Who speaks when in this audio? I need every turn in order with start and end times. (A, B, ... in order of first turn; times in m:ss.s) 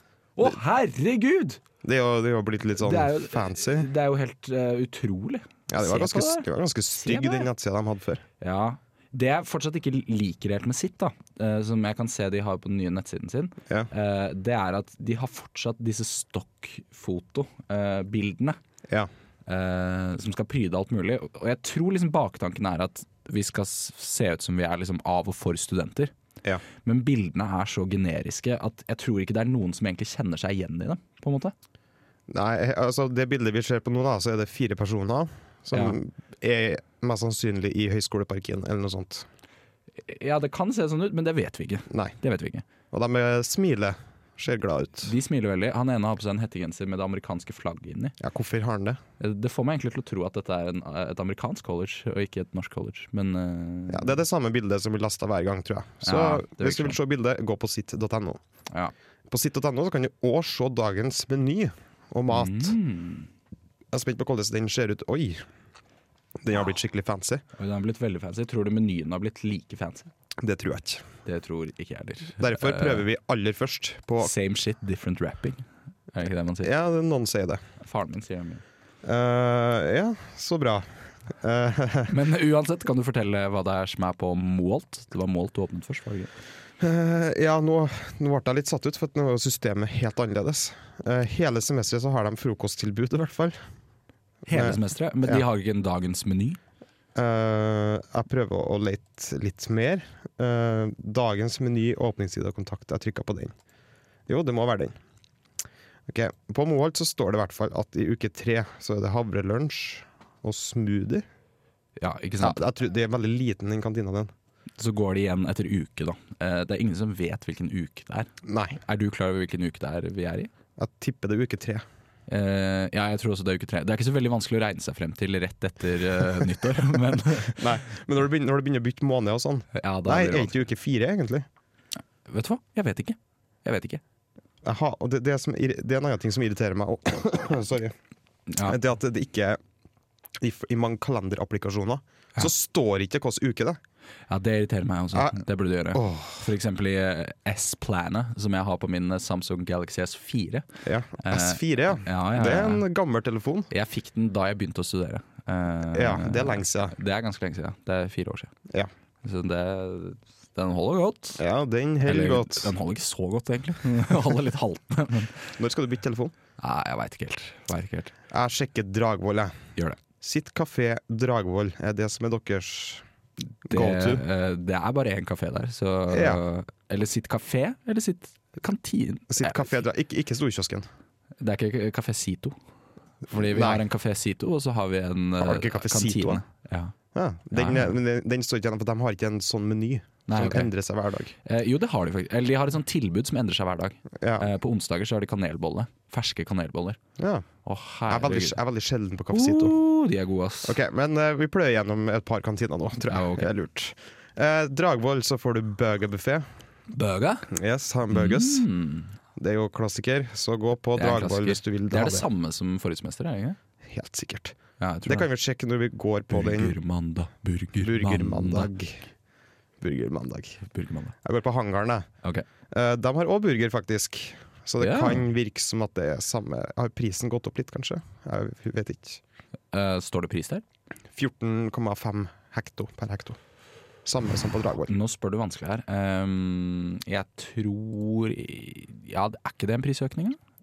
0:00.4-0:01.6 A
0:01.8-0:03.9 B
0:02.8-0:07.5 A
0:05.7-0:08.2 B
0:08.4-0:18.6 A
0:19.5-0:26.1 A
0:26.8-0:31.5 A
0:32.3-0:39.2 B
0:35.7-0:36.0 A
0:40.0-0:42.6 A
0:41.9-0:42.1 B
0:42.9-0:45.1 B
0:45.0-0:48.2 A
0:48.2-0:49.0 B
0:49.2-0:54.2 A
0:53.9-0:58.4 B
0:56.0-0:57.0 A
0:59.3-1:02.8 B
1:02.3-1:03.3 A
1:03.9-1:05.4 B
1:06.4-1:07.4 B
1:07.6-1:10.1 A
1:10.4-1:11.1 B
1:11.2-1:13.0 A
1:12.4-1:14.3 B
1:14.2-1:16.7 A
1:16.6-1:17.6 B
1:17.8-1:18.6 A
1:19.0-1:22.1 B
1:22.1-1:26.3 A
1:26.8-1:33.6 B
1:34.5-1:36.6 A
1:34.5-1:35.4 B
1:37.1-1:43.5 B
1:44.3-1:45.0 B
1:46.1-1:51.2 B
1:52.0-1:52.6 A
1:52.4-1:54.3 B
1:54.8-2:00.5 A
1:58.4-1:58.8 B
2:00.8-2:01.8 B
2:02.3-2:07.6 A
2:07.5-2:11.5 B
2:09.7-2:10.6 A
2:12.3-2:14.0 A
2:14.6-2:17.9 B
2:18.5-2:18.8 A
2:18.6-2:19.6 B
2:20.4-2:23.8 B
2:24.3-2:30.7 A
2:25.1-2:25.4 B
2:25.9-2:26.5 B
2:30.8-2:33.7 B
2:31.2-2:32.8 A
2:33.7-2:38.5 A
2:35.9-2:36.9 B
2:39.2-2:41.4 A
2:41.4-2:42.7 B
2:42.0-2:45.5 A
2:45.6-2:46.3 B
2:46.6-2:48.1 A
2:48.3-2:49.6 B
2:50.2-2:53.0 B
2:53.6-2:59.8 A
2:53.7-2:54.2 B
2:56.1-2:56.4 B
2:59.3-3:00.8 B
3:01.4-3:02.6 A
3:03.3-3:06.9 A
3:03.3-3:03.8 B
3:05.4-3:06.4 B
3:07.1-3:11.3 B
3:07.5-3:08.0 A
3:10.3-3:10.7 A
3:11.4-3:17.0 A
3:14.2-3:14.5 B
3:17.2-3:17.4 B
3:17.6-3:18.6 A
3:18.1-3:19.8 B
3:19.3-3:20.8 A
3:20.6-3:26.5 B
3:23.1-3:23.5 A
3:26.9-3:27.5 A
3:27.5-3:28.6 B
3:28.1-3:29.1 A
3:29.4-3:32.3 B
3:30.9-3:33.6 A
3:33.8-3:36.7 B
3:34.8-3:35.3 A
3:36.3-3:38.7 A
3:37.8-3:39.1 B
3:39.8-3:40.6 B
3:40.6-3:41.1 A
3:41.2-3:42.1 B
3:42.7-3:49.2 B
3:44.8-3:45.2 A
3:49.7-3:50.6 A
3:51.1-3:53.4 B
3:54.0-3:54.9 B
3:54.9-4:00.4 A